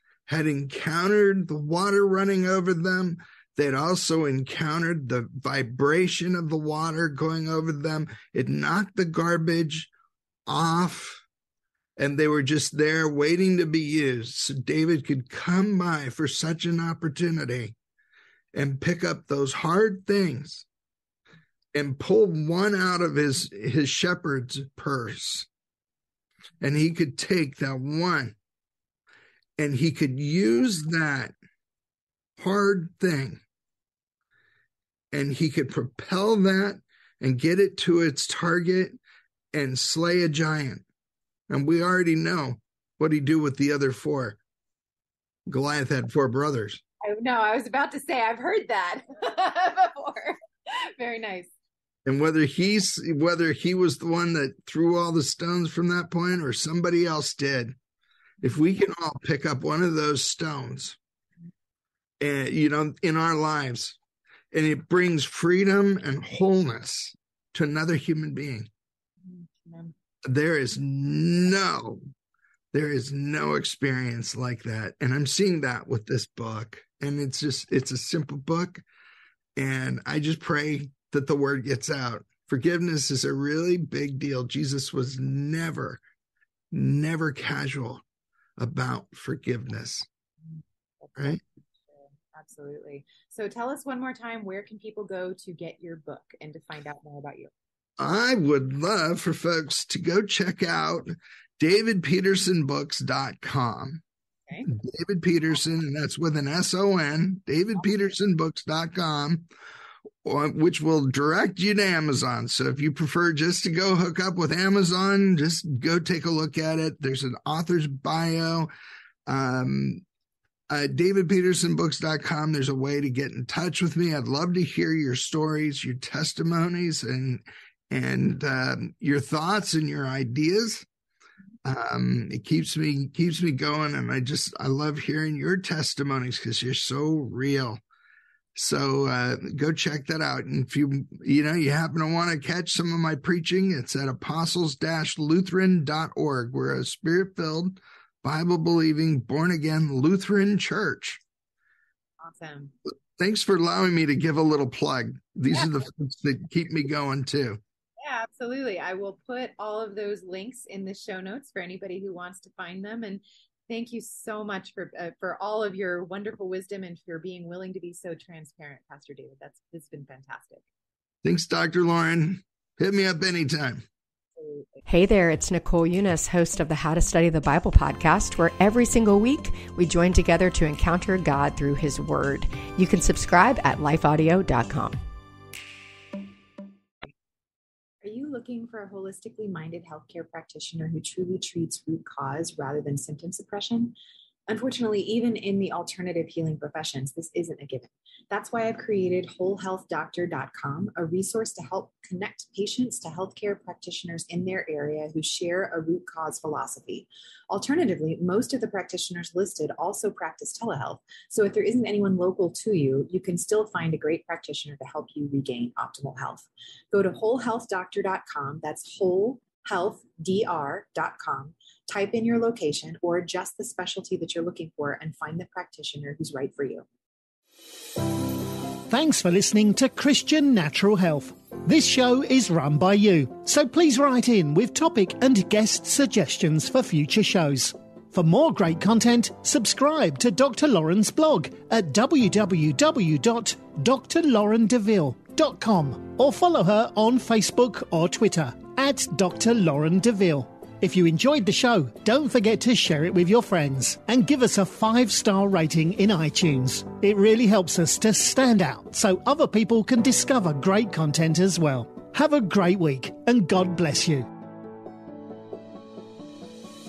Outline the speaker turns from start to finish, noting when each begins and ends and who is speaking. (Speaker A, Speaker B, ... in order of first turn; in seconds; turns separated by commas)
Speaker A: 0.3-9.9, Speaker A: 10.5-11.2, Speaker A: 12.0-17.8, Speaker A: 18.5-20.7, Speaker A: 21.7-25.5, Speaker A: 26.6-28.4, Speaker A: 29.6-31.4, Speaker A: 32.4-33.4, Speaker A: 35.1-39.0, Speaker A: 39.5-40.8, Speaker A: 41.5-44.4, Speaker A: 45.5-46.8, Speaker B: 47.0-51.5, Speaker A: 52.1-57.8, Speaker A: 58.4-61.0, Speaker A: 62.2-64.0, Speaker A: 64.5-68.7, Speaker B: 69.2-69.9, Speaker A: 70.2-72.0, Speaker A: 72.7-78.8, Speaker A: 79.6-86.0, Speaker A: 86.7-88.0, Speaker A: 88.6-90.1, Speaker B: 91.0-97.5, Speaker A: 98.0-104.0, Speaker A: 104.7-109.5, Speaker A: 110.2-118.7, Speaker A: 119.3-120.0, Speaker A: 120.7-130.9, Speaker A: 131.7-137.8, Speaker A: 138.6-151.2, Speaker B: 152.2-152.8, Speaker A: 153.2-157.6, Speaker B: 158.0-170.7, Speaker A: 171.2-173.8, Speaker B: 174.4-174.8, Speaker C: 174.9-185.0, Speaker B: 188.0-193.9, Speaker B: 194.5-226.8, Speaker D: 228.9-264.3